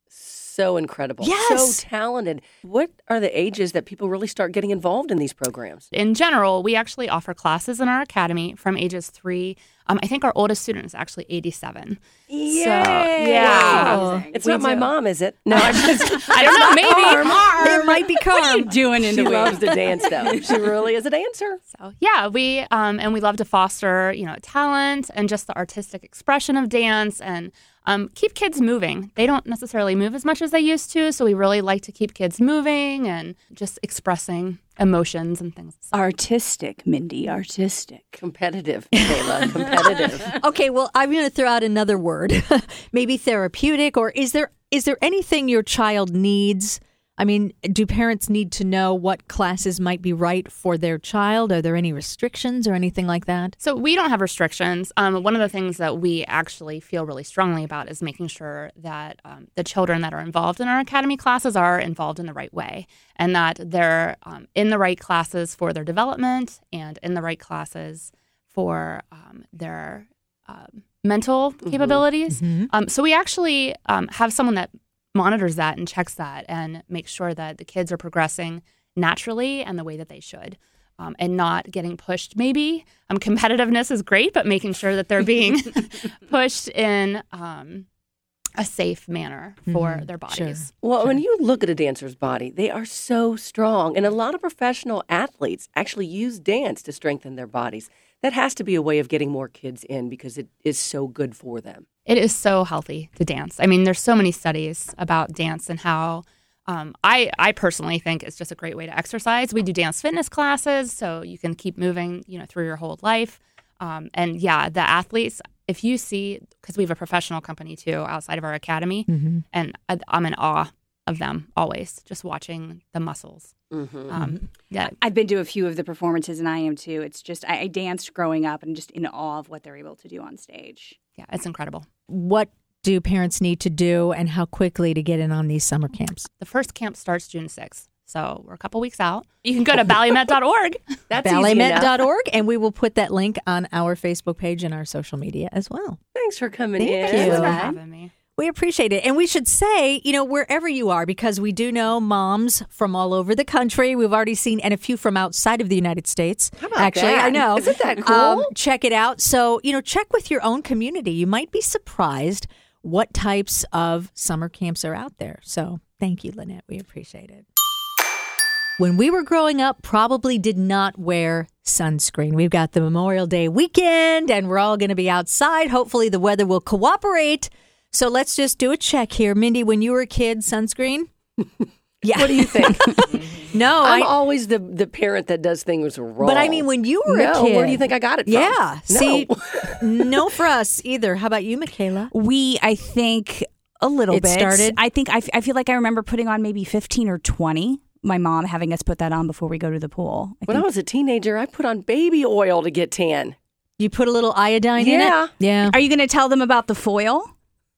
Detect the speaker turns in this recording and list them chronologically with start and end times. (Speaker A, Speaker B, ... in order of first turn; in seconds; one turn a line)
Speaker A: 0.1-5.8
Speaker B: 1.2-1.8
Speaker C: 5.9-14.0
Speaker A: 12.3-17.7
Speaker D: 13.1-14.9
Speaker B: 13.6-14.3
Speaker D: 15.6-20.4
Speaker C: 15.8-17.6
Speaker B: 17.5-19.7
Speaker A: 19.1-21.6
Speaker C: 21.7-35.9
Speaker D: 35.9-38.2
Speaker A: 38.2-40.4
Speaker B: 40.1-53.5
Speaker C: 53.6-87.8
Speaker A: 71.7-72.0
Speaker B: 72.3-72.7
Speaker C: 88.6-90.7
Speaker B: 89.7-91.2
Speaker A: 90.8-101.8
Speaker C: 102.0-123.5
Speaker B: 119.1-119.4
Speaker A: 123.7-124.1
Speaker C: 124.1-124.9
Speaker D: 124.8-131.0
Speaker C: 131.2-131.8
Speaker B: 132.1-136.3
Speaker C: 136.4-140.8
Speaker A: 141.1-142.0
Speaker B: 141.2-146.0
Speaker A: 146.1-147.4
Speaker B: 146.8-147.8
Speaker C: 147.0-148.1
Speaker D: 147.2-147.7
Speaker B: 148.4-167.4
Speaker A: 156.6-158.5
Speaker B: 168.8-181.1
Speaker B: 182.0-184.1
Speaker A: 182.1-190.2
Speaker B: 186.2-192.1
Speaker D: 192.1-200.7
Speaker B: 194.1-194.8
Speaker A: 200.5-203.3
Speaker B: 203.8-205.8
Speaker A: 204.8-205.3
Speaker D: 205.6-207.3